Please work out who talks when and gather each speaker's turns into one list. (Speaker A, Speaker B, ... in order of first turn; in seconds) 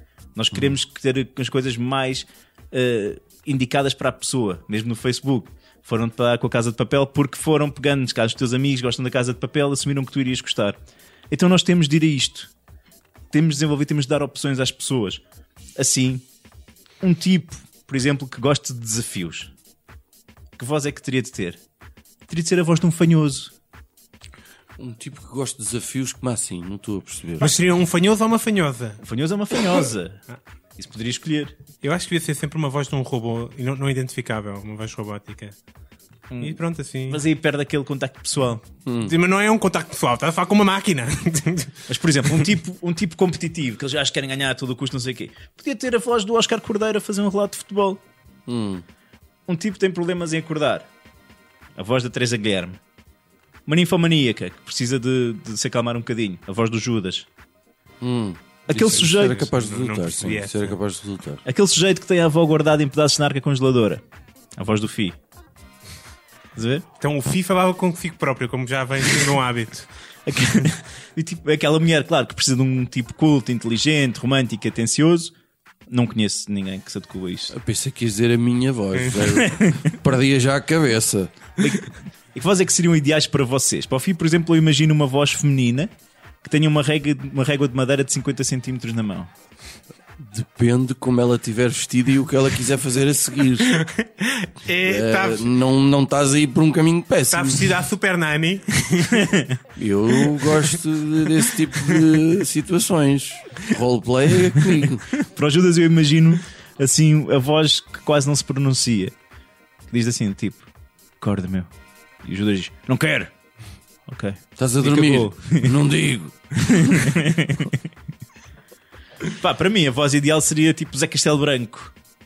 Speaker A: 0.3-10.8, 11.3-12.5, 13.3-15.2, 15.8-16.2, 17.0-19.5, 20.6-21.6, 22.3-23.5, 29.0-30.2, 30.8-31.6, 36.3-38.6, 41.9-48.0, 49.5-50.9, 51.8-52.8, 53.7-57.3, 58.7-59.5, 61.5-64.0, 64.6-65.2, 66.5-66.8, 70.3-75.3, 75.9-77.5, 79.3-79.8, 81.6-85.9, 86.4-89.3, 99.2-99.6, 105.2-109.2, 109.9-110.7, 111.2-111.7, 112.2-113.3, 114.1-115.8, 116.6-117.8, 119.3-121.9
Speaker B: 24.8-27.6, 38.9-39.1, 48.5-48.8, 58.0-61.4, 77.5-81.3, 90.2-93.9, 94.8-97.8, 99.8-105.1, 114.6-116.4
Speaker C: 27.4-29.0, 31.8-35.6, 36.4-37.2, 39.0-42.5, 58.7-60.8, 67.0-69.9, 79.0-79.2, 93.6-95.5, 97.3-99.3, 101.7-102.2